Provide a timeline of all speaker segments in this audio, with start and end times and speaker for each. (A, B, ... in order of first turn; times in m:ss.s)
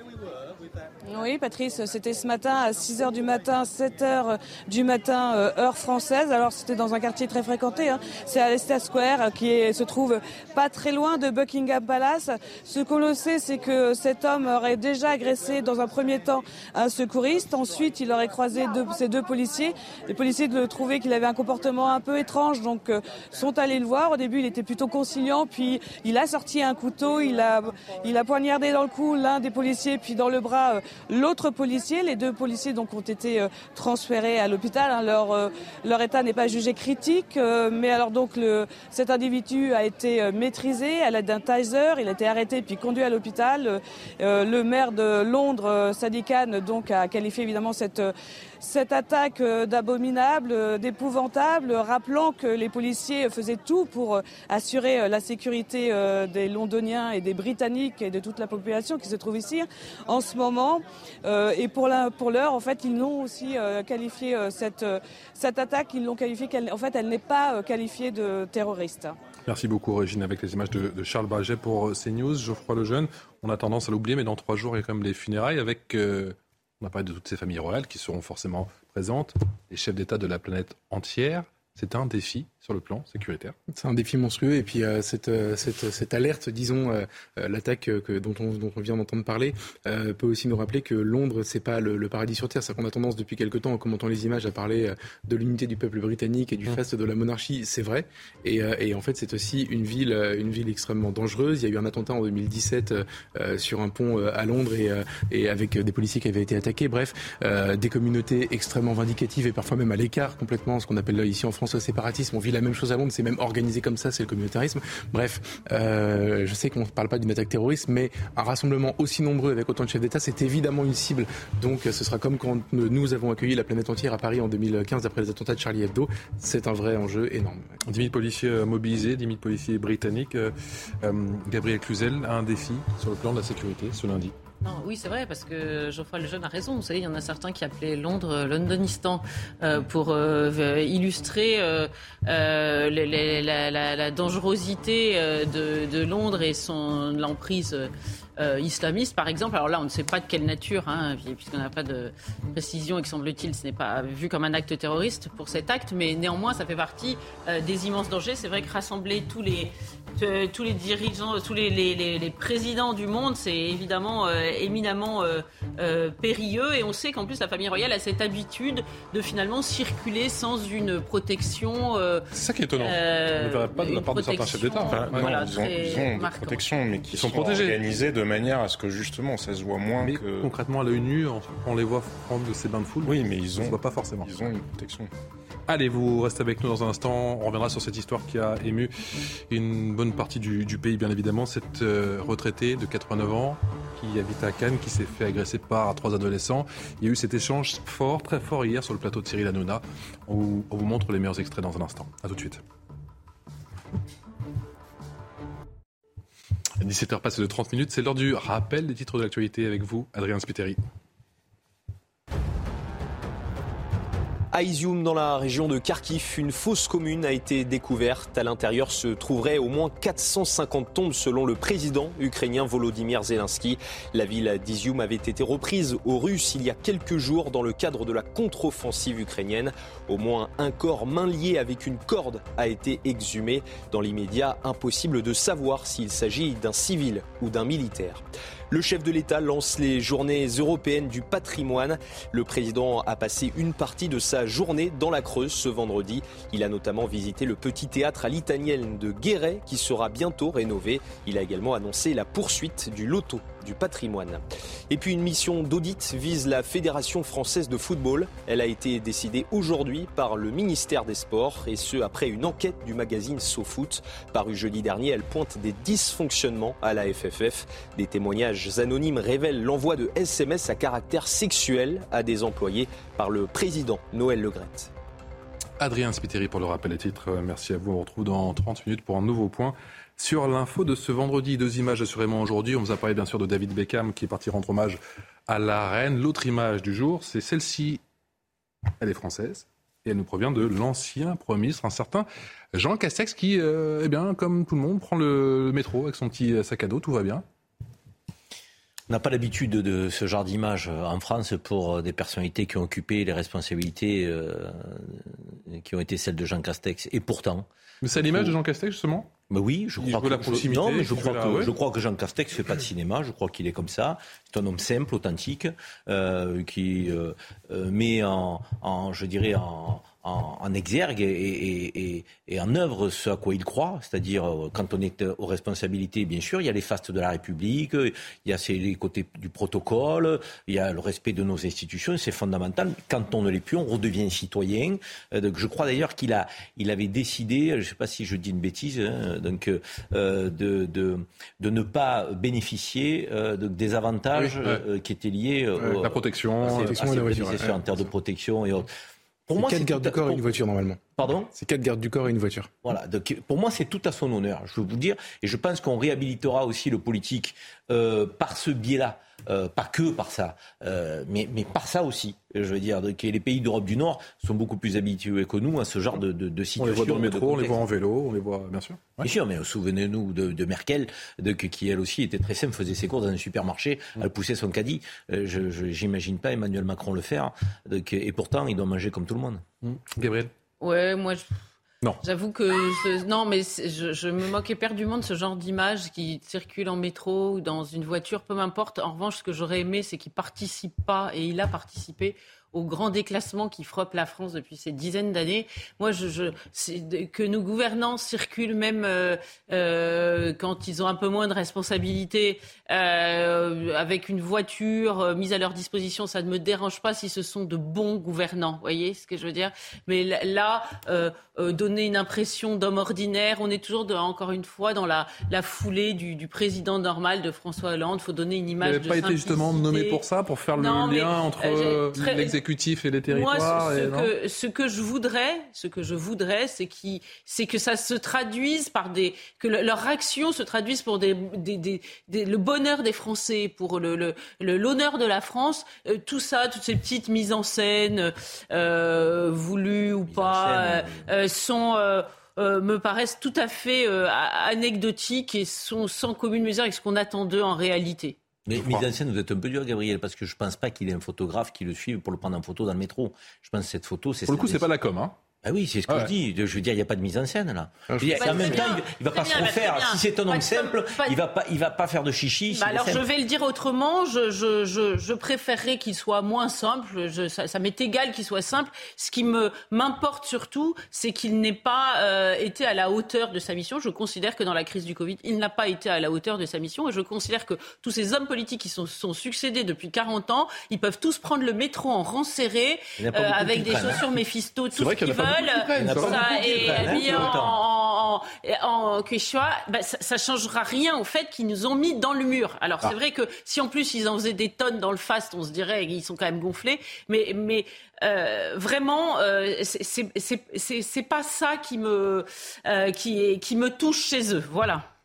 0:01.0-1:09.2 A
1:09.4-1:23.5 B
1:23.7-2:07.6 C
2:07.9-2:14.3 B
2:14.6-2:52.2 D
2:52.3-2:56.0 B
2:52.8-2:56.6 D
2:54.9-3:00.5 E
2:57.1-2:57.8 B
3:00.0-3:04.3 B
3:03.0-3:05.1 E
3:05.7-3:08.9 B
3:09.5-3:22.6 B
3:26.8-3:30.8 B
3:34.5-4:34.9 F
4:35.8-4:48.0 B
4:49.0-4:57.4 B
4:59.1-5:08.6 G
5:08.0-5:09.3 B
5:09.5-5:48.9 G
5:10.0-5:11.7 B
5:44.4-5:44.8 B
5:45.9-5:46.9 B
5:46.6-5:47.8 C
5:49.5-5:50.5 G
5:49.6-5:52.7 C
5:51.2-5:51.5 G
5:52.8-6:07.8 G
6:06.8-6:09.3 B
6:09.2-6:19.6 G
6:19.8-6:20.5 B
6:20.8-6:21.5 D
6:22.2-7:00.2 D
6:58.8-7:04.3 B
7:00.7-7:02.6 D
7:03.3-7:28.4 D
7:20.3-7:21.3 G
7:28.6-7:34.9 G
7:34.5-7:35.3 B
7:35.6-7:43.2 G
7:36.1-7:36.3 B
7:38.1-7:38.8 C
7:38.4-7:41.4 D
7:42.7-8:25.0 D
8:03.2-8:04.2 G
8:04.9-8:07.5 B
8:06.0-8:07.8 G